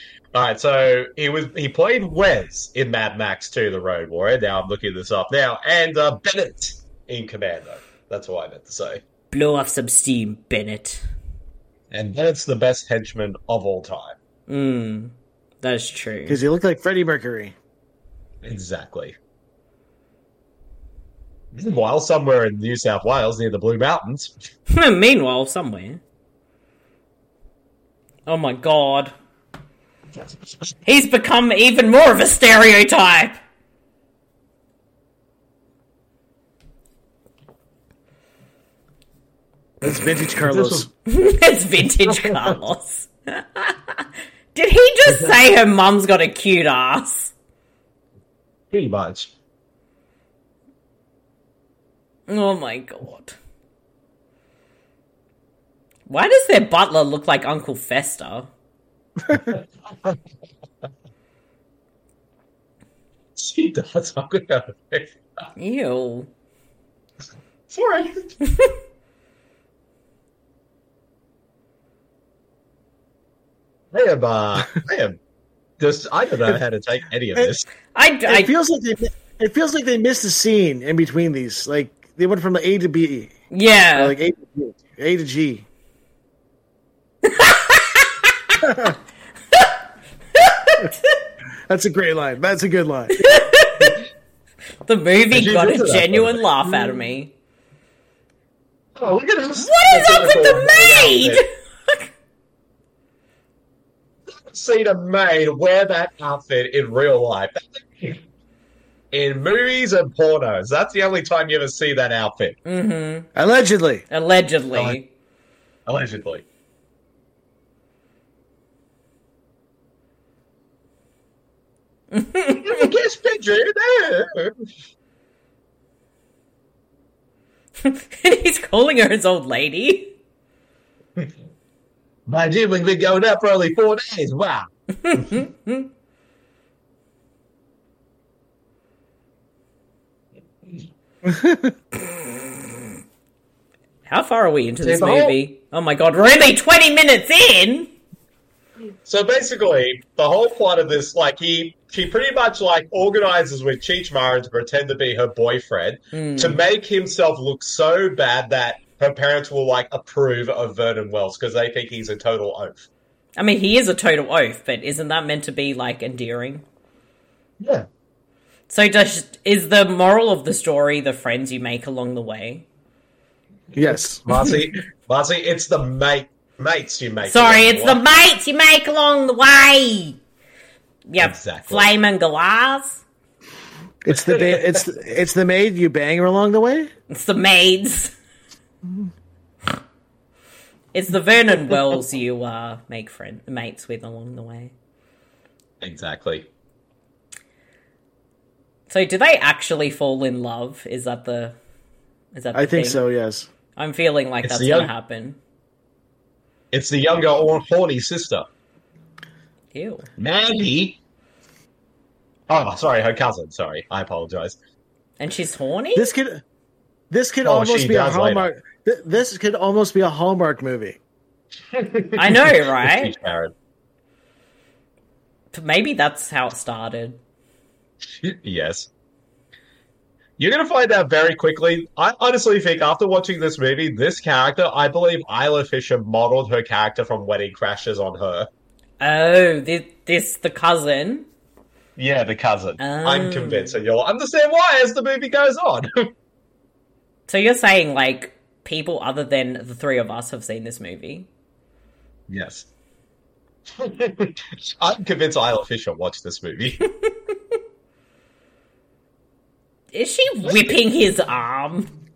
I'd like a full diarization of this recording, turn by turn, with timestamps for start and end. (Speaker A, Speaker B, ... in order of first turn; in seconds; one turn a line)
Speaker A: 0.3-9.0
Speaker B: 9.3-11.0
Speaker A: 11.9-14.2
Speaker B: 14.5-16.4
Speaker C: 16.3-17.6
Speaker A: 18.4-19.2
Speaker A: 21.5-24.3
Speaker B: 24.7-26.0
Speaker B: 28.3-29.1
Speaker B: 30.9-33.4
Speaker C: 39.8-40.9
Speaker A: 40.4-40.9
Speaker B: 41.1-47.3
Speaker A: 42.1-42.5
Speaker A: 45.1-45.3
Speaker A: 48.7-49.3
Speaker B: 52.3-53.4
Speaker B: 56.1-58.5
Speaker A: 59.4-60.2
Speaker A: 63.4-65.1
Speaker B: 65.6-66.3
Speaker A: 67.7-68.3
Speaker A: 73.9-75.2
Speaker A: 75.8-77.7
Speaker B: 77.9-78.5
Speaker C: 78.3-83.3
Speaker B: 83.5-84.2
Speaker C: 84.0-85.7
Speaker B: 87.2-88.3
Speaker C: 88.6-89.0
Speaker B: 90.4-91.2
Speaker C: 91.7-93.2
Speaker B: 93.2-94.0
Speaker B: 94.9-97.3
Speaker A: 95.3-96.4
Speaker A: 99.0-101.4
Speaker B: 99.6-102.1
Speaker A: 104.3-108.2
Speaker A: 109.1-112.6
Speaker B: 112.7-113.3
Speaker C: 113.3-114.1
Speaker B: 114.1-115.1
Speaker A: 115.9-116.4
Speaker B: 122.1-122.9
Speaker A: 122.5-124.5
Speaker B: 127.8-130.1
Speaker A: 132.3-135.3
Speaker B: 135.0-135.9
Speaker C: 141.2-141.7
Speaker B: 142.1-142.5
Speaker B: 144.1-147.9
Speaker A: 144.8-145.4
Speaker A: 149.1-162.9
Speaker B: 156.1-156.6
Speaker B: 163.4-166.7
Speaker A: 167.6-167.9
Speaker B: 168.7-172.7
Speaker C: 173.8-174.2
Speaker A: 174.2-178.0
Speaker B: 177.2-180.2
Speaker B: 181.1-183.0
Speaker A: 181.2-181.9
Speaker C: 184.0-186.9
Speaker A: 184.1-184.8
Speaker B: 187.1-188.1
Speaker B: 190.9-194.7
Speaker A: 195.8-196.5
Speaker B: 198.9-201.6
Speaker B: 202.3-203.0
Speaker C: 202.5-203.5
Speaker B: 203.8-205.4
Speaker A: 204.4-204.9
Speaker A: 206.7-208.5
Speaker B: 209.7-210.1
Speaker A: 210.2-211.0
Speaker A: 212.5-214.6
Speaker B: 215.2-216.1
Speaker C: 215.9-216.4
Speaker C: 217.1-221.0
Speaker A: 217.4-218.5
Speaker A: 221.7-223.5
Speaker B: 222.2-223.1
Speaker B: 225.5-227.2
Speaker A: 228.2-228.9
Speaker A: 230.4-238.5
Speaker B: 239.0-241.3
Speaker A: 242.0-246.1
Speaker B: 242.8-243.8
Speaker B: 247.3-251.3
Speaker A: 252.3-252.7
Speaker A: 253.8-256.8
Speaker B: 259.9-261.9
Speaker A: 260.5-260.8